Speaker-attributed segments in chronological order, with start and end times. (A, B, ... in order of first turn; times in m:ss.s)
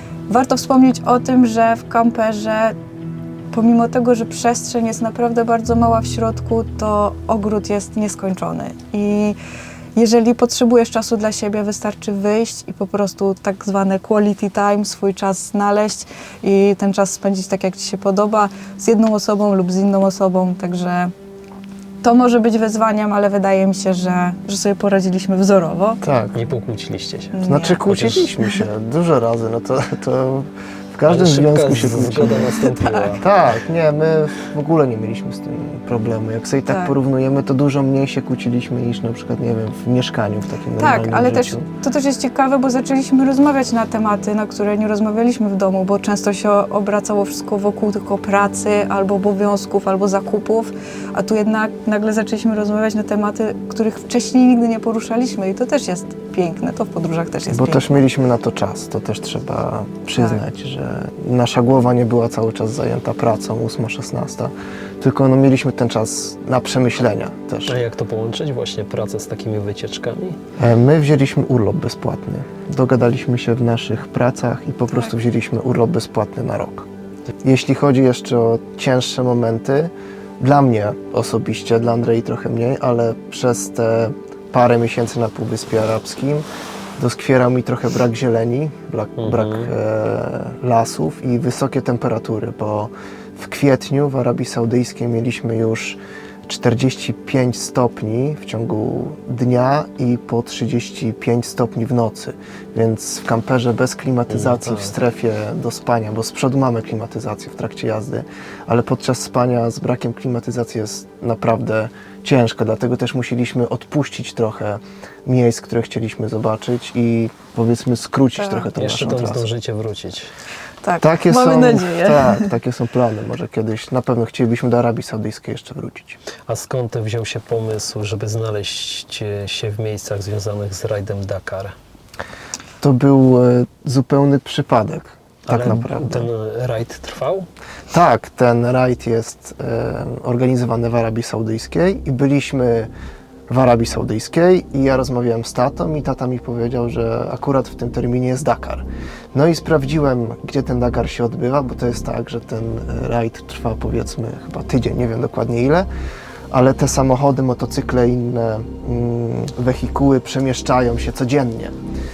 0:00.3-0:02.8 A
0:03.5-0:09.4 A
0:10.0-0:21.1 A
0:22.0-0:26.0 A
0:26.0-0:26.4 B
0:26.3-0:28.3 C
0:27.3-0:28.6 A
0:27.5-0:32.6 B
0:31.1-0:33.3 C
0:32.4-0:33.2 A
0:33.2-0:41.7 B
0:36.7-0:36.9 A
0:40.8-0:57.9 A
0:57.5-1:07.8 B
1:00.2-1:00.4 A
1:07.7-1:10.4 C
1:10.6-1:16.9 B
1:17.4-1:26.4 B
1:27.0-1:59.5 B
1:29.2-1:29.7 C
1:44.3-1:45.0 C
1:58.4-1:58.7 A
1:58.8-2:00.3 C
2:00.8-2:02.5 A
2:01.0-2:06.2 B
2:06.5-2:11.7 C
2:12.8-2:16.3 B
2:15.5-2:17.5 C
2:17.9-2:22.9 B
2:23.5-2:35.9 B
2:36.5-2:41.8 B